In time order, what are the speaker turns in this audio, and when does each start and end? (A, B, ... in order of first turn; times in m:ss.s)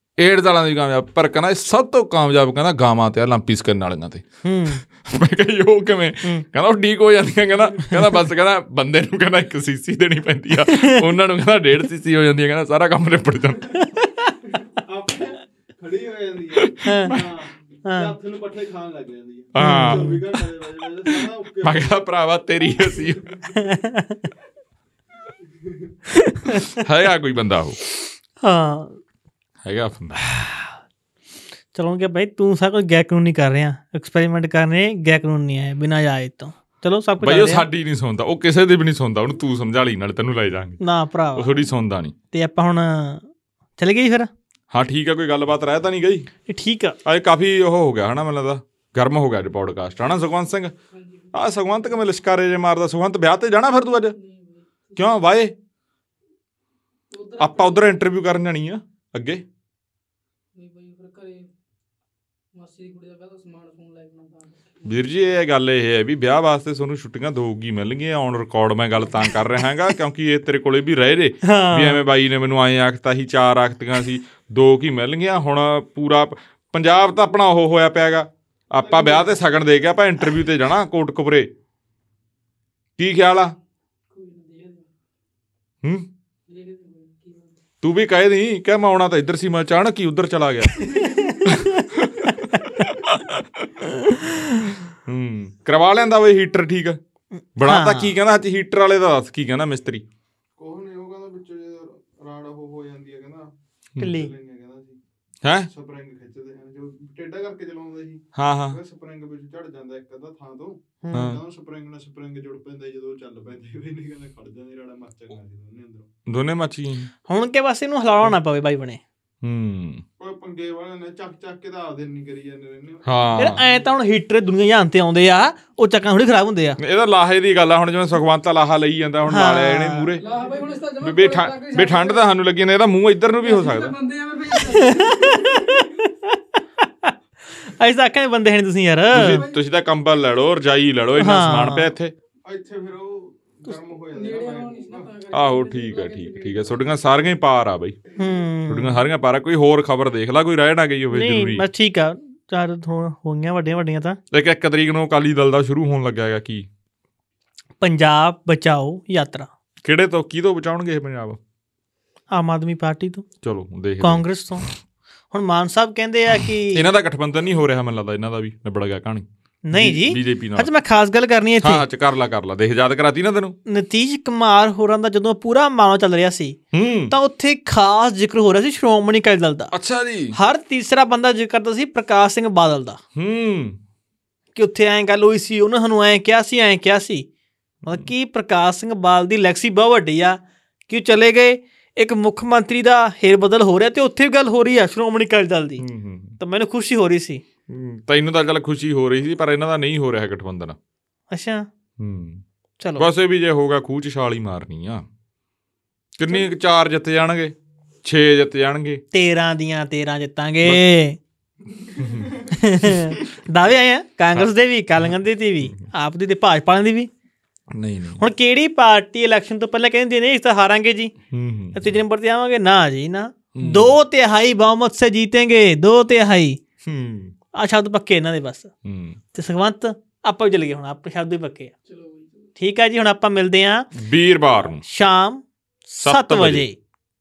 0:00.2-0:13.8 A
0:04.4-0:04.8 B
0:07.9-0:08.1 B
0:10.6-0:11.1 B
0:13.8-0:14.4 B
0:14.6-0:22.0 C
0:16.6-0:17.3 A
0:16.8-0:17.1 B
0:17.8-0:18.1 B
0:19.6-0:20.2 A
0:19.6-0:20.2 B
0:21.6-0:23.4 A
0:22.8-0:23.6 C
0:23.6-0:24.3 B
0:25.6-0:25.9 C
0:26.2-0:26.8 B
0:26.6-0:27.8 A
0:28.4-0:29.0 B
0:29.6-0:30.2 A
0:30.4-0:30.7 B
0:31.7-0:37.7 B
0:37.2-0:40.8 A
0:40.8-0:41.6 B
0:41.3-0:42.1 A
0:42.3-0:43.2 B
0:43.8-0:44.3 B
0:44.7-0:46.3 A
0:46.5-0:47.0 B
0:47.0-0:50.7 A
0:50.9-0:51.4 D
0:51.3-0:54.2 A
0:54.2-0:55.1 D
0:55.0-0:55.5 A
0:57.1-0:57.9 D
0:57.4-0:59.4 A
1:00.5-1:01.5 D
1:02.5-1:04.9 D
1:04.8-1:21.5 A
1:11.4-1:12.0 B
1:18.8-1:19.5 C
1:23.0-1:23.6 A
1:24.1-1:24.9 D
1:26.5-1:27.6 D
1:27.8-1:30.8 A
1:30.8-1:31.5 C
1:30.9-1:31.8 B
1:31.4-1:33.9 A
1:34.1-1:34.8 B
1:34.9-1:37.0 A
1:37.4-1:38.1 B
1:37.6-1:40.0 A
1:40.6-1:43.5 C
1:44.0-1:44.3 B
1:44.0-1:45.0 C
1:45.4-1:45.7 A
1:45.7-1:56.1 C
1:48.4-1:48.8 A
1:51.0-1:51.3 B
1:51.1-1:51.4 A
1:56.3-1:57.1 A
1:57.3-1:59.0 B
1:59.4-2:00.0 A
2:00.2-2:03.7 C
2:03.1-2:03.6 A
2:03.4-2:06.8 B
2:06.8-2:10.2 A
2:09.3-2:10.1 B
2:10.2-2:12.2 D
2:10.3-2:10.6 C
2:11.0-2:14.0 A
2:13.4-2:15.8 D
2:14.7-2:19.4 B
2:19.1-2:22.1 A
2:19.2-2:19.6 D
2:21.2-2:21.9 B
2:22.4-2:25.2 C
2:24.1-2:26.8 D
2:25.3-2:28.0 A
2:28.2-2:29.0 B
2:28.7-2:31.6 A
2:31.1-2:34.2 B
2:34.3-2:36.7 A
2:37.8-2:39.5 B
2:39.8-2:41.4 A
2:42.3-2:43.3 B
2:43.4-2:44.2 A
2:44.0-2:44.7 B
2:45.3-2:46.9 B
2:46.7-2:50.7 A
2:49.7-2:51.8 B
2:51.6-2:53.6 A
2:53.7-2:56.6 B
2:56.7-2:57.1 A
2:57.1-2:59.7 B
2:59.7-3:00.4 A
3:00.3-3:03.0 B
3:03.2-3:03.8 A
3:04.6-3:07.3 B
3:07.9-3:15.8 B
3:15.8-3:16.4 A
3:16.4-3:17.4 B
3:17.7-3:20.8 A
3:21.3-3:21.7 B
3:22.0-3:22.4 A
3:22.8-3:23.1 B
3:23.0-3:25.1 A
3:26.2-3:29.0 A
3:29.1-3:31.2 B
3:31.8-3:32.5 C
3:32.0-3:33.2 A
3:32.5-3:37.1 B
3:37.7-3:38.2 A
3:38.2-3:41.1 B
3:41.3-3:42.0 A
3:41.7-3:46.6 B
3:43.5-3:44.0 A
3:46.8-3:47.3 A
3:47.6-3:48.7 B
3:48.8-3:49.2 A
3:49.3-3:51.7 B
3:51.9-3:52.5 D
3:52.6-3:53.9 B
3:53.9-3:54.8 A
3:54.8-3:56.8 B
3:56.0-3:56.7 A